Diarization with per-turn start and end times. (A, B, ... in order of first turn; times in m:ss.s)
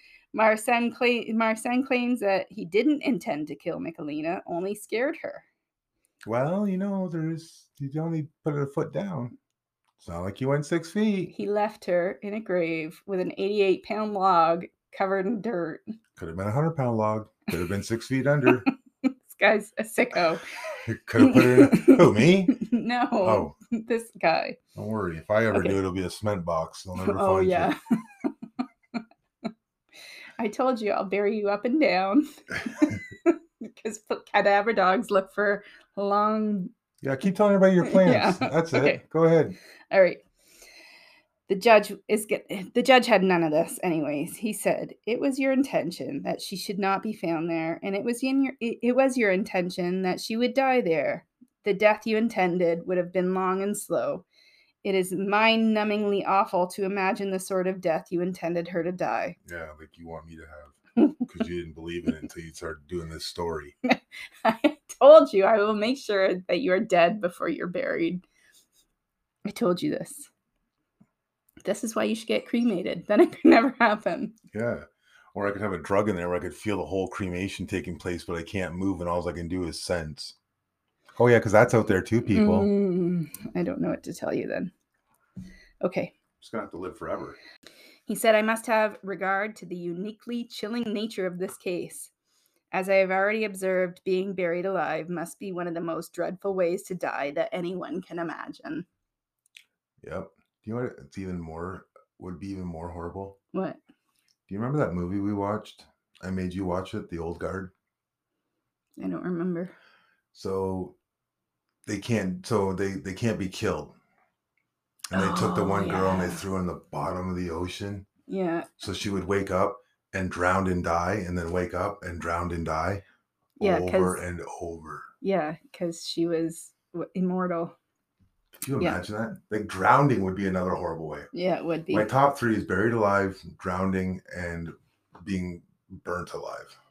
0:00.3-0:05.4 A
0:06.2-0:09.3 B
0:10.0-0:11.3 B
0:11.3-0:15.8 A
0:16.2-0:18.7 B
0:19.0-0:20.4 A
0:20.8-0:22.6 B
0:21.2-0:24.6 A
0:23.2-0:23.5 B
0:24.7-0:27.7 B
0:27.0-0:28.2 A
0:30.4-0:36.7 A
0:37.0-0:39.6 B
0:37.8-0:39.0 A
0:39.9-0:40.2 A
0:41.5-0:54.2 A
0:54.8-0:59.4 A
0:59.4-1:03.7 B
1:01.0-1:01.2 A
1:03.9-1:08.2 A
1:09.4-1:10.3 A
1:11.6-1:14.3 A
1:14.5-1:20.3 B
1:21.2-1:22.7 B
1:22.3-1:24.7 A
1:25.8-1:26.1 A
1:26.4-1:27.4 B
1:28.1-1:32.1 A
1:32.7-1:38.8 A
1:40.0-1:43.4 B
1:43.5-1:43.8 A
1:44.5-1:47.7 B
1:49.0-1:49.7 A
1:50.3-1:51.0 B
1:51.8-1:54.0 B
1:55.1-1:58.0 B
1:55.1-1:56.4 A
1:58.3-1:58.7 A
1:58.8-2:03.0 B
2:03.6-2:04.2 A
2:03.6-2:05.1 B
2:05.2-2:07.7 A
2:08.6-2:11.3 B
2:11.3-2:12.1 A
2:11.9-2:16.8 B